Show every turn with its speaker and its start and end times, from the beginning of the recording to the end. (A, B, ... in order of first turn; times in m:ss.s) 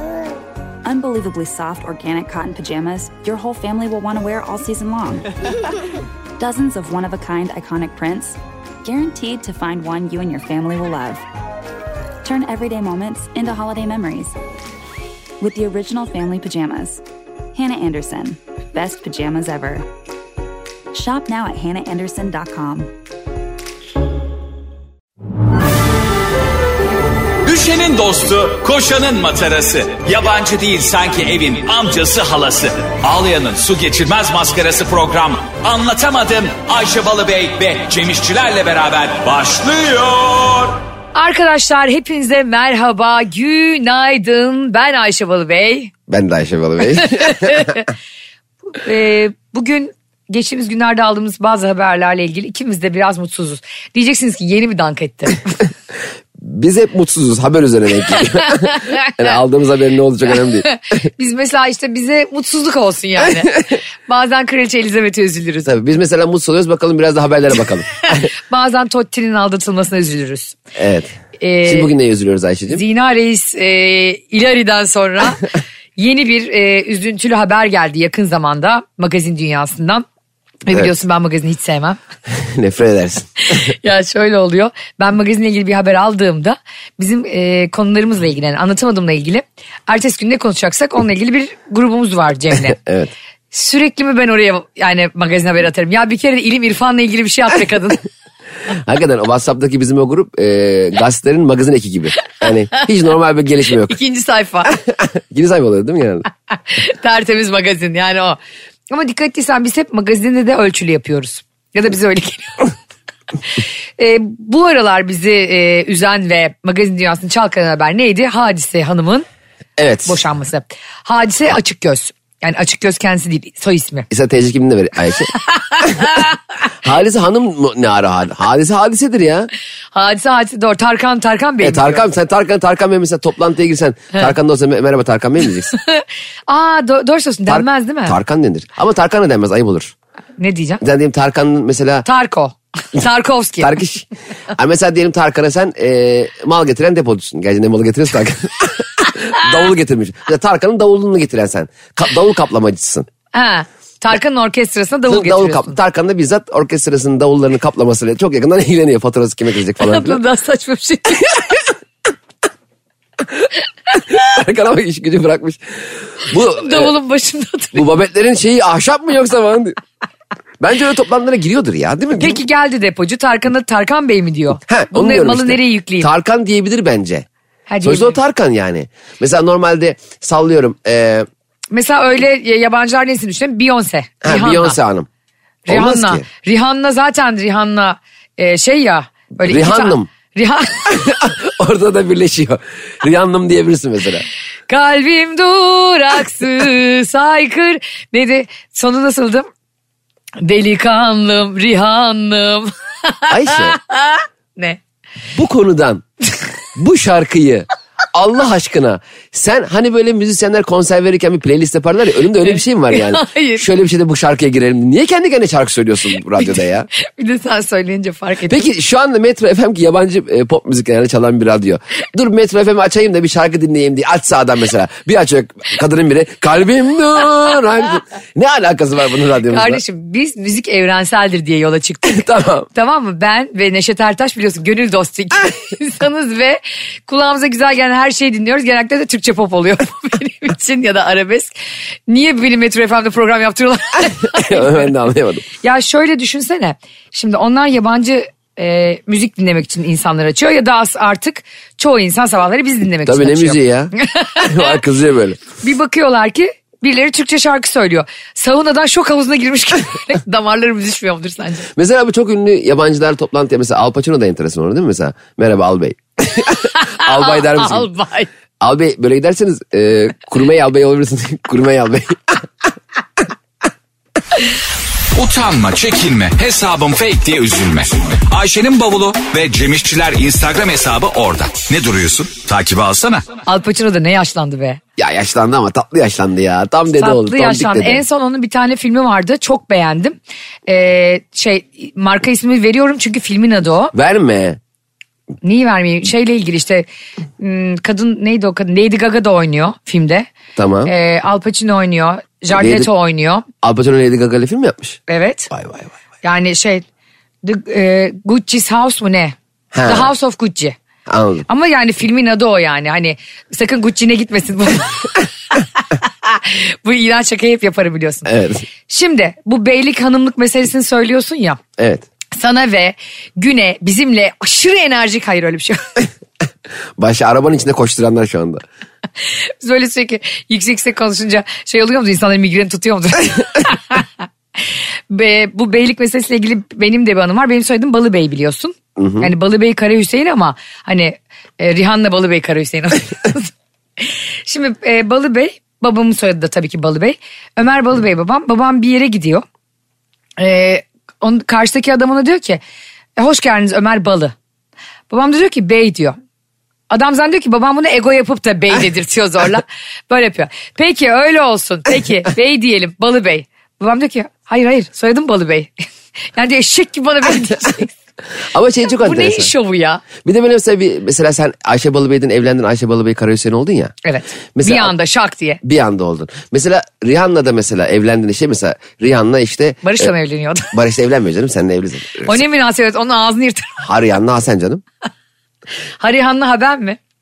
0:00.8-0:05.3 A
0:06.4-0:11.2 A
0:12.2-0:14.4 A
0:15.4-0:17.0 A
0:17.5-0:19.9 A
0:20.9-0:22.9 A
0:27.4-0:40.8 B
0:41.2-0:45.9 C
0:46.1-0:47.7 D
0:47.0-0:47.9 C
0:48.7-0:55.7 C
0:56.4-1:00.7 D
0:58.4-0:59.2 C
1:00.6-1:05.7 C
1:05.6-1:08.3 D
1:08.1-1:10.6 C
1:10.8-1:12.8 D
1:11.4-1:11.9 C
1:12.7-1:20.0 C
1:20.7-1:22.0 C
1:22.3-1:23.3 D
1:23.4-1:32.8 C
1:32.7-1:33.1 D
1:33.5-1:38.0 C
1:38.7-1:44.0 D
1:43.8-1:44.8 C
1:44.7-1:46.3 D
1:46.7-1:48.4 C
1:48.9-1:52.7 C
1:54.0-1:59.3 C
1:59.8-2:00.2 D
2:00.0-2:04.1 C
2:04.1-2:06.2 D
2:05.4-2:06.3 C
2:06.8-2:09.5 D
2:09.9-2:12.1 C
2:11.6-2:15.7 D
2:15.7-2:18.2 C
2:17.5-2:19.9 D
2:20.4-2:20.8 C
2:20.8-2:22.1 D
2:22.0-2:23.7 C
2:23.6-2:33.1 D
2:33.3-2:35.8 C
2:35.1-2:40.2 D
2:39.8-2:41.4 C
2:43.4-2:46.9 D
2:46.5-2:47.8 C
2:47.7-2:49.8 D
2:50.6-2:52.4 D
2:52.2-2:56.1 C
2:54.6-2:57.3 D
2:57.7-2:58.2 C
2:57.8-3:01.3 D
3:01.7-3:04.8 C
3:04.2-3:05.1 D
3:05.7-3:11.1 C
3:05.7-3:06.2 D
3:09.4-3:10.1 D
3:10.9-3:14.3 D
3:14.7-3:19.5 C
3:20.4-3:24.8 C
3:23.3-3:23.8 D
3:25.4-3:26.0 D
3:26.8-3:36.9 D
3:32.4-3:33.6 C
3:37.0-3:38.7 C
3:38.5-3:49.8 D
3:49.5-4:01.5 C
3:52.1-3:52.7 D
4:02.1-4:04.9 C
4:04.3-4:05.5 D
4:05.6-4:14.8 C
4:13.1-4:15.4 D
4:15.6-4:21.7 C
4:21.7-4:27.9 D
4:26.7-4:28.3 C
4:28.6-4:32.4 D
4:35.1-4:43.3 B
4:43.5-4:44.8 C
4:45.0-4:48.0 D
4:46.9-4:53.9 C
4:53.9-4:54.6 D
4:55.4-4:56.9 C
4:57.4-5:00.3 C
5:00.6-5:00.9 D
5:00.8-5:03.5 C
5:02.5-5:02.9 D
5:03.6-5:05.0 D
5:05.1-5:05.5 C
5:05.5-5:05.9 D
5:06.2-5:06.8 C
5:07.4-5:09.4 C
5:09.7-5:10.1 D
5:09.9-5:10.8 C
5:11.1-5:11.5 D
5:11.5-5:18.3 C
5:18.3-5:18.7 D
5:18.9-5:21.6 C
5:21.8-5:22.1 D
5:22.4-5:26.0 C
5:27.0-5:28.6 D
5:29.3-5:49.4 C
5:39.0-5:39.3 D
5:50.4-5:52.6 C
5:53.2-5:54.4 C
5:55.1-5:56.2 C
5:56.9-6:05.7 C
6:06.3-6:08.0 C
6:08.5-6:09.5 D
6:09.0-6:10.0 C
6:10.2-6:13.9 D
6:14.0-6:15.6 C
6:14.6-6:14.9 D
6:15.6-6:20.1 D
6:19.8-6:20.7 C
6:20.7-6:22.4 D
6:22.2-6:23.8 C
6:23.8-6:24.8 D
6:26.0-6:27.0 C